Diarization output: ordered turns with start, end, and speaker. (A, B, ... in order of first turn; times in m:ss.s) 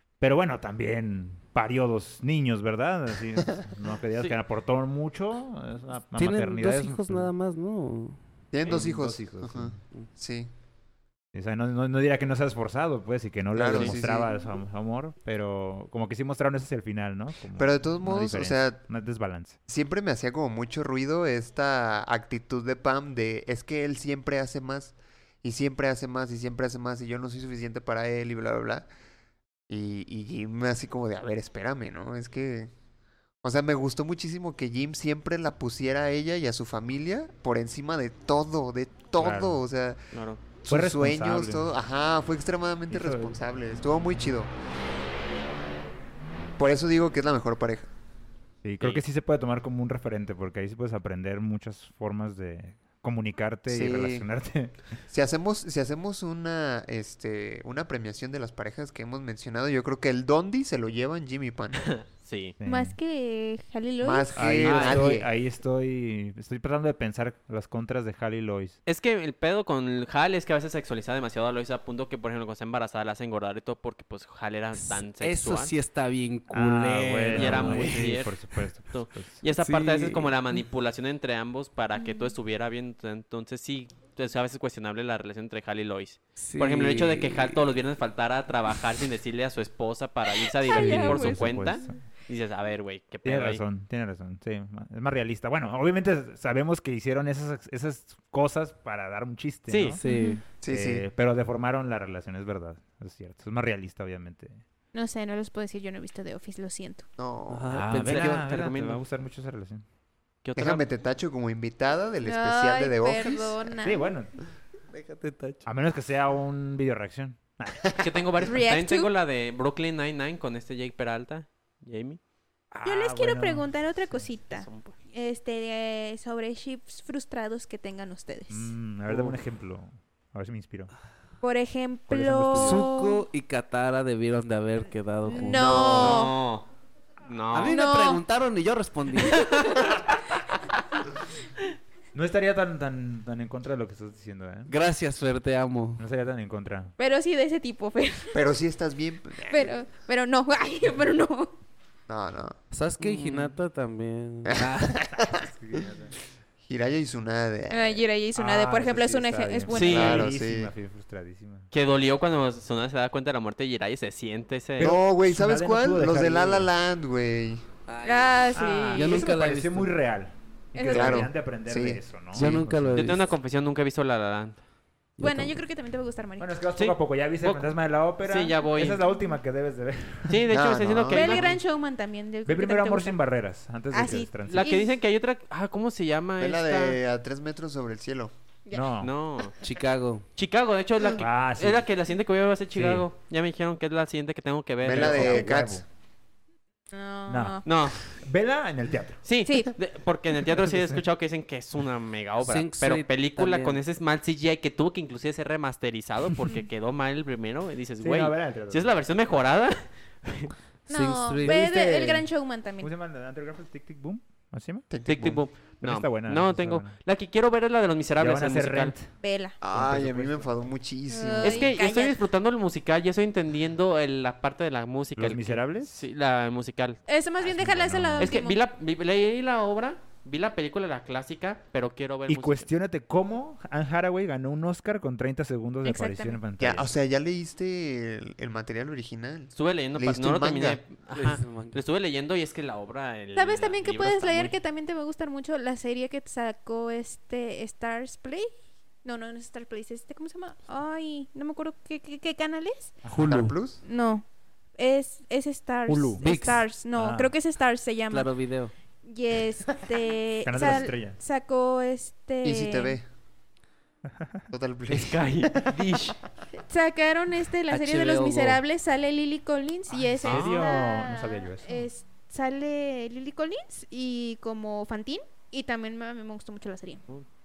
0:00.2-0:07.3 A
0:06.2-0:08.2 B
0:08.5-0:10.5 C
0:08.7-0:09.8 A
0:11.3-0:19.6 A
0:13.5-0:14.4 C
0:17.6-0:18.8 C
0:19.7-0:28.9 C
0:29.7-0:32.7 C
0:33.4-0:40.0 C
0:39.2-0:39.6 A
0:40.1-0:40.4 D
0:40.6-0:44.5 C
0:40.7-0:41.8 A
0:42.9-0:43.4 A
0:46.6-0:47.9 C
0:48.6-0:55.0 A
0:53.7-0:54.3 C
0:55.1-1:01.9 C
1:01.8-1:02.6 D
1:02.6-1:03.0 A
1:02.6-1:04.3 E
1:04.0-1:05.3 C
1:04.4-1:08.8 A
1:04.6-1:05.0 D
1:08.9-1:15.7 D
1:14.8-1:18.3 B
1:16.5-1:19.4 A
1:17.3-1:18.4 D
1:18.9-1:33.6 D
1:19.5-1:20.6 B
1:22.0-1:22.3 E
1:26.4-1:27.6 B
1:30.6-1:31.9 E
1:30.7-1:32.0 A
1:33.2-1:40.0 A
1:39.7-1:40.0 D
1:40.0-1:40.4 B
1:40.0-1:40.4 E
1:40.6-1:41.1 C
1:40.6-1:44.6 A
1:44.9-1:47.1 E
1:47.2-1:47.8 C
1:47.5-1:48.5 B
1:47.7-1:49.8 A
1:47.9-1:49.0 D
1:50.4-1:50.8 D
1:50.6-1:53.8 C
1:52.2-1:54.0 E
1:53.8-1:54.4 A
1:54.9-1:55.6 B
1:55.6-1:58.0 A
1:58.0-2:02.2 D
1:58.4-1:59.1 E
2:02.7-2:04.3 A
2:02.8-2:08.7 E
2:04.6-2:04.9 D
2:08.5-2:10.9 A
2:09.1-2:09.4 B
2:11.4-2:13.2 E
2:12.1-2:12.8 A
2:12.4-2:16.2 B
2:15.2-2:16.4 E
2:15.5-2:16.2 C
2:15.6-2:16.7 D
2:17.2-2:17.8 D
2:17.5-2:19.7 B
2:17.7-2:18.2 E
2:19.4-2:19.9 E
2:22.1-2:24.7 A
2:24.7-2:26.0 B
2:26.0-2:26.9 A
2:27.0-2:28.5 E
2:28.3-2:29.8 C
2:29.4-2:31.5 E
2:32.1-2:32.6 C
2:32.7-2:35.0 B
2:34.5-2:35.8 C
2:35.2-2:36.2 A
2:36.6-2:38.1 C
2:37.7-2:40.3 E
2:38.4-2:41.7 A
2:39.7-2:40.3 D
2:39.8-2:40.7 C
2:41.7-2:44.9 D
2:44.8-2:46.7 A
2:44.8-2:47.6 C
2:47.9-2:49.9 B
2:48.0-2:49.3 E
2:48.5-2:53.2 A
2:50.8-2:51.3 E
2:50.9-2:52.5 C
2:52.3-2:53.3 B
2:52.9-2:54.6 D
2:55.2-2:55.6 B
2:55.2-2:56.6 E
2:56.4-3:00.5 A
2:56.8-2:59.0 D
2:58.8-2:59.3 E
3:00.3-3:01.5 D
3:00.5-3:01.4 C
3:01.1-3:03.2 E
3:02.5-3:04.7 A
3:03.9-3:04.9 E
3:04.5-3:07.0 D
3:06.4-3:08.3 C
3:08.7-3:09.1 A
3:09.0-3:09.6 D
3:09.6-3:10.3 B
3:10.4-3:15.4 D
3:11.2-3:11.9 A
3:12.7-3:13.1 A
3:14.8-3:15.8 C
3:14.8-3:15.8 A
3:16.9-3:17.6 E
3:17.3-3:19.2 A
3:17.6-3:18.0 D
3:19.2-3:30.5 D
3:20.5-3:21.0 A
3:22.4-3:23.8 B
3:28.0-3:29.0 A
3:30.9-3:32.3 B
3:30.9-3:32.9 E
3:32.8-3:35.0 A
3:34.9-3:35.4 C
3:35.1-3:38.9 D
3:35.8-3:37.0 A
3:38.2-3:39.1 A
3:39.2-3:39.6 E
3:39.6-3:41.7 C
3:39.7-3:40.5 A
3:41.1-3:42.2 E
3:41.4-3:47.0 D
3:45.2-3:46.0 A
3:47.1-3:48.6 E
3:47.4-3:48.4 A
3:48.2-3:52.7 D
3:52.3-3:56.9 A
3:55.8-3:56.4 E
3:56.6-4:00.8 C
3:59.5-4:04.5 D
4:01.1-4:01.8 B
4:03.4-4:08.5 E
4:09.0-4:13.0 E
4:13.0-4:13.4 A
4:13.1-4:13.6 B
4:13.2-4:13.8 C
4:13.8-4:14.2 E
4:14.8-4:18.4 E
4:15.9-4:16.3 A
4:16.2-4:16.7 B
4:16.9-4:17.3 A
4:18.1-4:18.7 B
4:19.0-4:23.0 E
4:20.4-4:21.2 A
4:22.4-4:23.1 C
4:24.5-4:25.5 C
4:24.9-4:26.2 D
4:26.5-4:37.0 E
4:27.7-4:28.6 B
4:29.9-4:31.9 A
4:30.2-4:30.7 D